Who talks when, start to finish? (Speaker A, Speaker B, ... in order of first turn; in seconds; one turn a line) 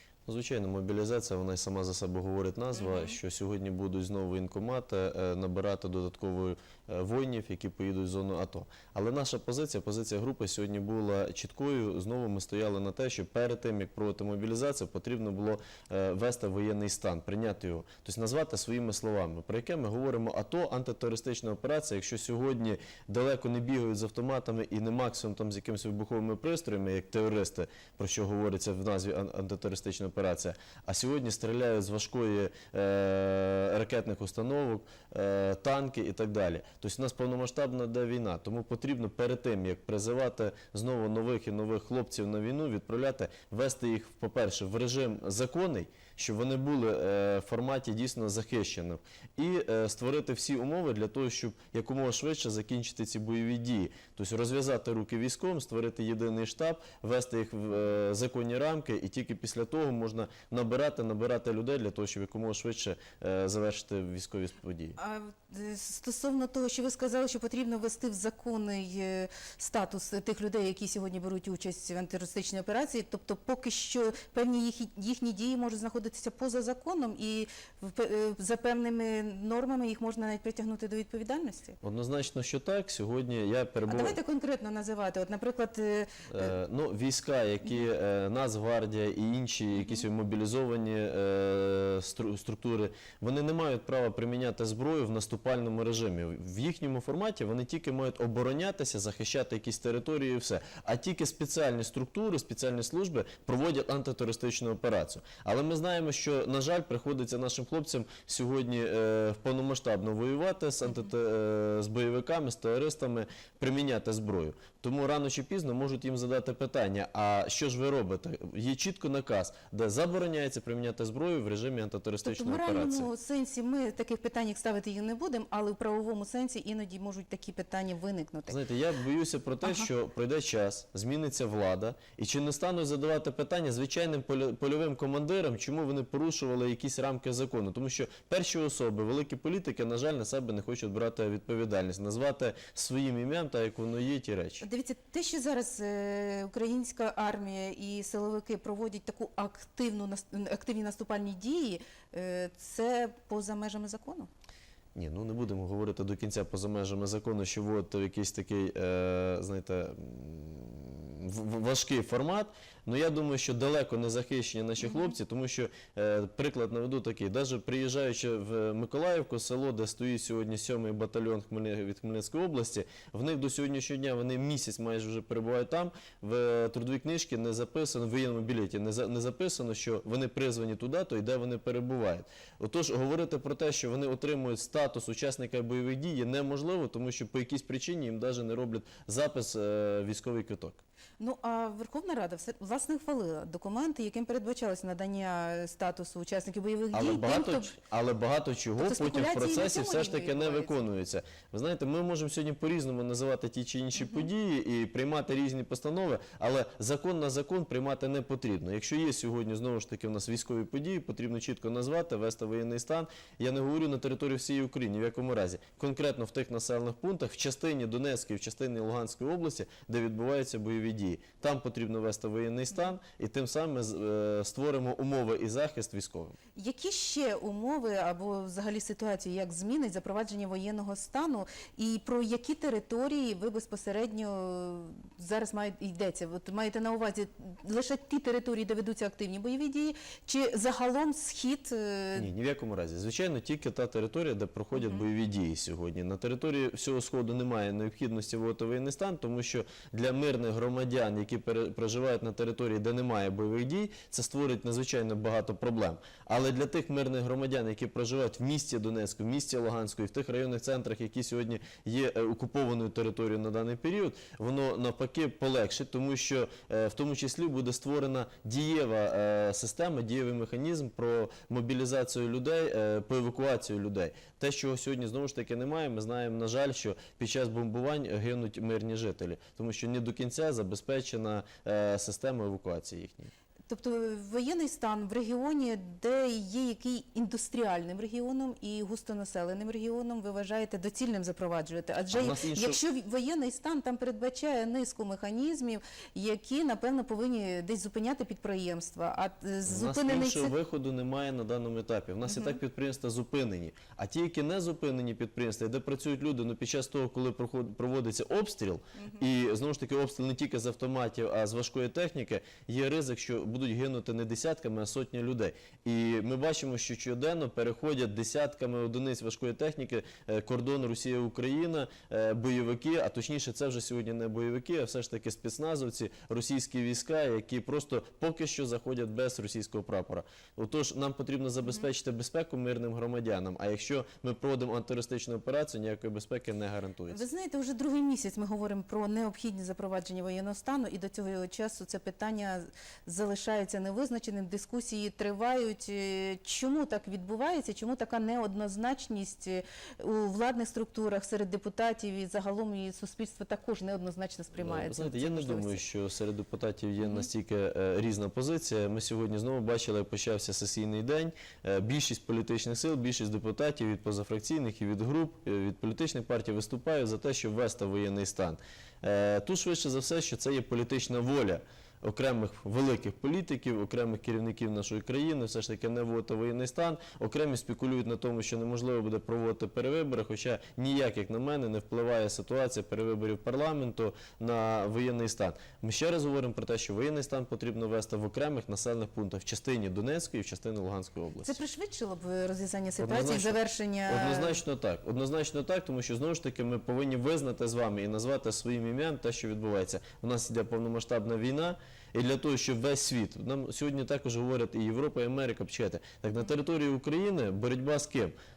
Speaker A: 0.2-65.0
Speaker B: 2.8-3.2
Speaker B: 65.0-81.8
Speaker A: 81.8-84.2
Speaker B: 83.9-86.5
Speaker A: 86.3-123.1
Speaker B: 89.8-90.0
Speaker B: 122.2-128.6
Speaker A: 128.5-144.6
Speaker B: 129.6-129.9
Speaker B: 144.6-154.3
Speaker A: 154.9-190.8
Speaker B: 164.8-165.1
Speaker B: 191.2-197.7
Speaker A: 196.9-226.3
Speaker B: 198.8-200.8
Speaker B: 203.9-204.2
Speaker B: 226.6-242.3
Speaker A: 242.2-283.3
Speaker B: 244.7-245.0
Speaker B: 283.7-300.5
Speaker A: 292.1-292.8
Speaker A: 299.7-337.2
Speaker B: 302.2-302.6
Speaker B: 337.1-355.8
Speaker A: 354.6-391.5
Speaker B: 357.0-357.3
Speaker B: 391.4-394.6
Speaker A: 393.0-408.3